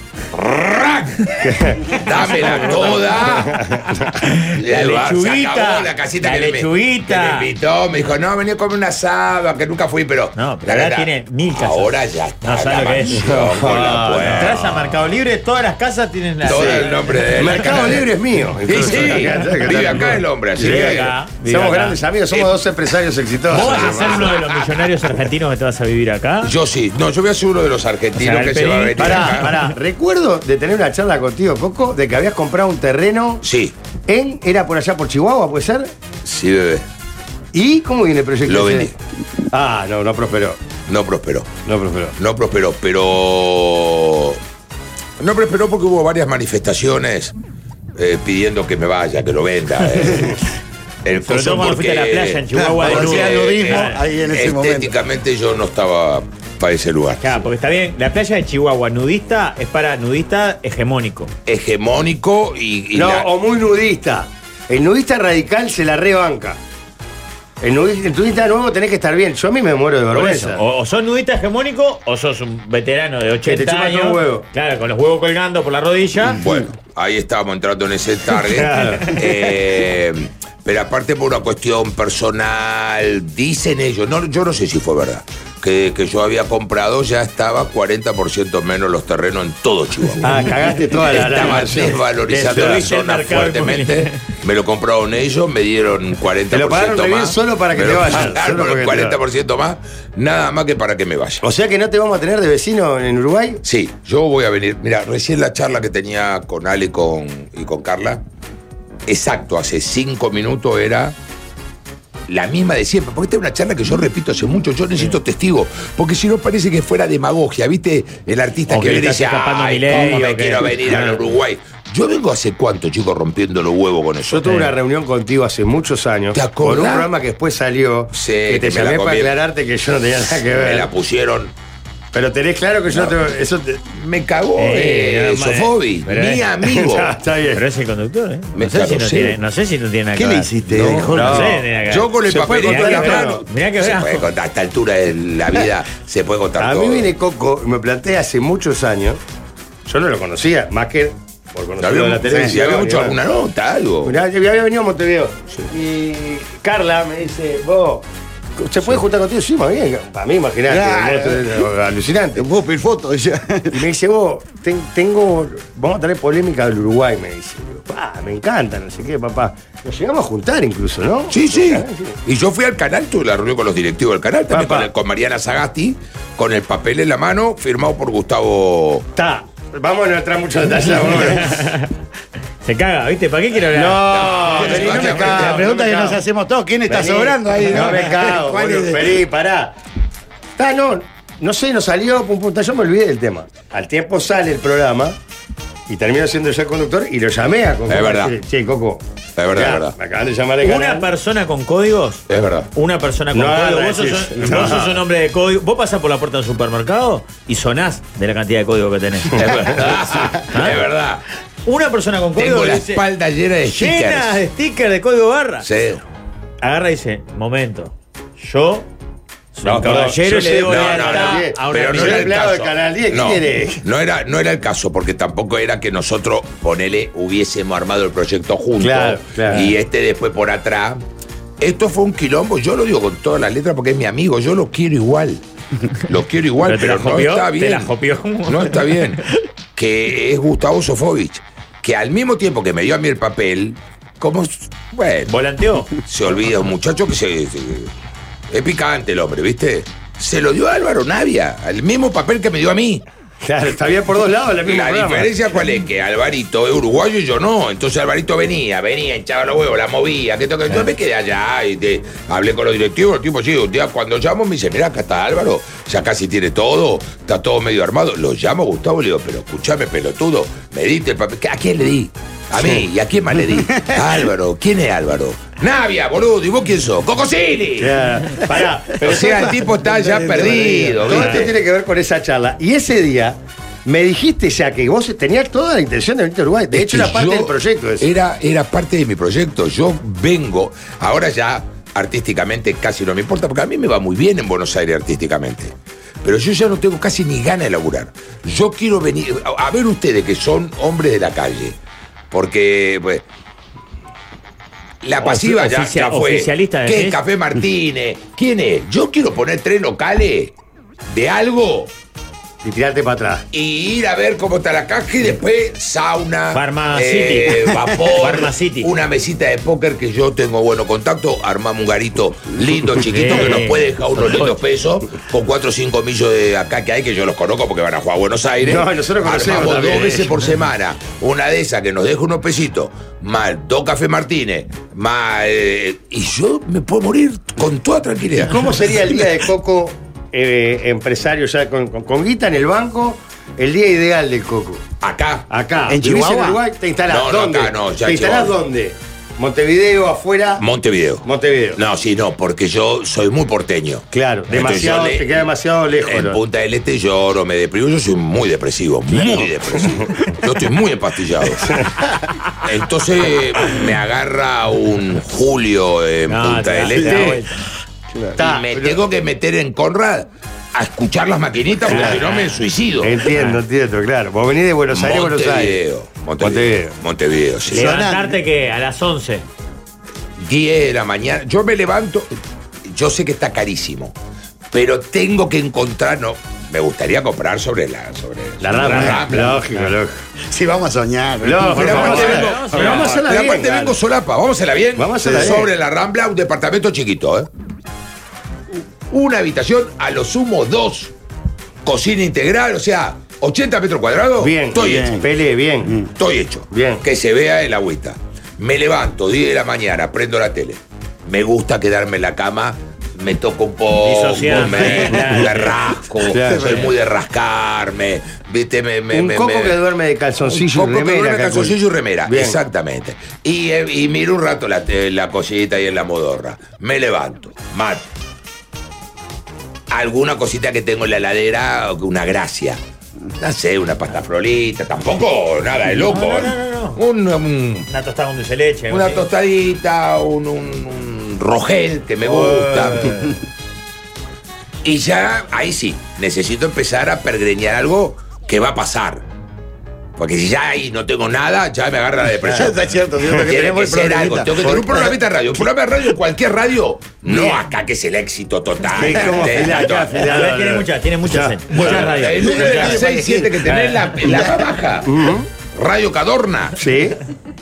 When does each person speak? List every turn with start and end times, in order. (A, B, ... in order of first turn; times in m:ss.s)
0:00.3-0:03.7 A
0:01.4-0:02.0 B
0:03.2-0:04.2 B
0:04.2-0:07.5 C
0:04.5-0:14.6 A
0:10.4-0:11.9 C
0:12.4-0:13.3 C
0:13.2-0:14.8 B
0:14.2-0:17.5 C
0:16.4-0:18.0 A
0:16.4-0:24.2 B
0:18.7-0:21.1 A
0:20.6-0:22.0 C
0:23.5-0:26.5 C
0:23.6-0:25.1 A
0:26.4-0:29.5 A
0:28.2-0:29.7 C
0:29.0-0:33.4 B
0:33.4-0:33.8 A
0:34.1-0:35.9 B
0:36.2-0:36.8 A
0:37.5-0:38.9 B
0:38.4-0:38.9 A
0:39.5-0:40.6 B
0:40.9-0:41.5 A
0:41.6-0:42.1 B
0:42.2-0:44.4 A
0:45.2-0:47.3 A
0:48.0-0:50.4 A
0:51.0-0:57.4 A
0:51.2-0:54.0 C
0:52.5-0:54.9 D
0:57.2-1:01.3 C
1:01.4-1:03.3 A
1:02.9-1:06.6 B
1:07.6-1:10.6 B
1:10.1-1:16.4 C
1:13.4-1:14.4 B
1:16.3-1:41.4 A
1:18.5-1:19.2 B
1:30.2-1:32.8 B
1:32.4-1:34.1 C
1:36.5-1:39.2 B
1:41.4-1:43.6 B
1:43.6-1:48.2 A
1:49.1-1:51.1 A
1:52.3-2:04.6 A
1:58.7-2:00.7 C
2:00.8-2:01.2 B
2:04.3-2:10.9 B
2:06.3-2:07.1 A
2:08.1-2:09.4 A
2:10.6-2:11.5 A
2:12.1-2:13.8 B
2:12.9-2:13.2 A
2:13.9-2:17.2 A
2:14.6-2:16.4 C
2:16.6-2:17.6 B
2:17.5-2:24.3 C
2:18.5-2:19.4 A
2:20.1-2:21.6 D
2:20.8-2:21.2 A
2:21.1-2:21.7 B
2:21.9-2:27.1 A
2:22.2-2:23.4 B
2:26.6-2:29.2 B
2:29.8-2:33.2 B
2:31.8-2:34.2 A
2:32.3-2:32.6 D
2:34.0-2:38.0 B
2:38.6-2:42.4 B
2:40.7-2:41.6 D
2:42.4-2:43.8 D
2:43.7-2:52.2 B
2:51.3-2:59.1 A
2:54.5-2:54.9 B
2:59.2-3:01.6 B
3:01.1-3:01.9 C
3:02.6-3:05.0 C
3:03.7-3:06.2 B
3:04.1-3:05.6 A
3:04.9-3:09.2 D
3:06.9-3:09.8 B
3:10.6-3:15.2 B
3:15.9-3:21.1 B
3:17.9-3:18.3 A
3:19.4-3:19.9 A
3:20.6-3:29.6 C
3:22.3-3:22.7 A
3:23.3-3:25.0 B
3:29.3-3:31.2 A
3:30.5-3:30.8 C
3:31.6-3:33.0 C
3:32.4-3:34.4 A
3:33.7-3:35.6 C
3:35.6-3:36.0 A
3:36.6-3:38.9 C
3:39.5-3:42.4 C
3:39.6-3:43.8 B
3:40.6-3:51.0 A
3:48.8-3:49.7 B
3:51.6-3:55.4 A
3:56.0-3:57.9 A
3:56.6-3:58.8 C
3:58.4-3:59.2 A
3:59.8-4:05.4 A
4:05.3-4:05.9 C
4:06.0-4:07.9 A
4:08.5-4:13.0 A
4:13.4-4:15.3 B
4:14.6-4:38.0 A
4:32.5-4:32.8 B
4:37.8-4:39.4 B
4:38.4-4:39.3 C
4:39.0-4:41.5 A
4:39.8-4:41.1 D
4:40.1-4:48.1 B
4:41.1-4:41.5 C
4:46.7-5:01.8 A
5:02.3-5:03.2 A
5:05.0-5:10.5 A
5:05.2-5:07.2 C
5:11.1-5:11.9 A
5:12.6-5:13.4 B
5:13.5-5:39.0 A
5:16.5-5:18.9 C
5:23.0-5:24.5 C
5:28.6-5:30.4 B
5:38.5-5:44.8 B
5:45.0-5:45.5 A
5:45.5-5:50.6 B
5:45.9-5:46.6 D
5:47.1-5:48.6 A
5:50.6-5:55.5 A
5:51.2-5:51.8 B
5:54.1-5:56.4 B
5:56.0-6:02.0 A
6:01.6-6:01.9 B
6:02.6-6:07.4 A
6:06.3-6:07.6 C
6:08.2-6:09.0 B
6:08.4-6:13.2 A
6:11.9-6:12.2 B
6:12.0-6:12.6 C
6:13.0-6:15.8 B
6:13.3-6:13.6 C
6:14.9-6:18.0 A
6:16.4-6:16.9 B
6:17.7-6:18.4 D
6:17.7-6:19.5 C
6:20.4-6:22.3 A
6:22.9-6:24.1 A
6:24.7-6:29.6 A
6:28.6-6:30.1 B
6:28.9-6:29.2 C
6:30.5-6:32.5 D
6:31.4-6:34.0 B
6:31.8-6:37.5 A
6:31.8-6:33.2 C
6:35.0-6:35.7 B
6:39.1-6:41.1 A
6:41.8-6:45.2 A
6:44.4-6:46.0 B
6:44.8-6:45.2 D
6:46.2-6:59.8 A
6:46.7-6:47.0 B
6:54.0-6:55.7 C
6:54.6-6:55.4 B
6:56.3-6:56.7 B
6:56.4-6:56.8 D
6:59.1-7:02.6 B
7:00.4-7:08.1 A
7:09.9-7:12.8 A
7:13.4-7:17.9 A
7:16.0-7:17.0 C
7:17.9-7:19.2 C
7:18.9-7:23.2 A
7:23.0-7:23.3 C
7:24.8-7:29.2 A
7:30.2-7:32.8 A
7:32.4-7:35.2 D
7:33.3-7:40.2 A
7:39.0-7:42.0 B
7:40.2-7:43.1 C
7:41.7-7:46.8 A
7:42.4-7:43.6 D
7:43.6-7:44.4 C
7:45.0-7:45.5 B
7:46.8-7:47.2 B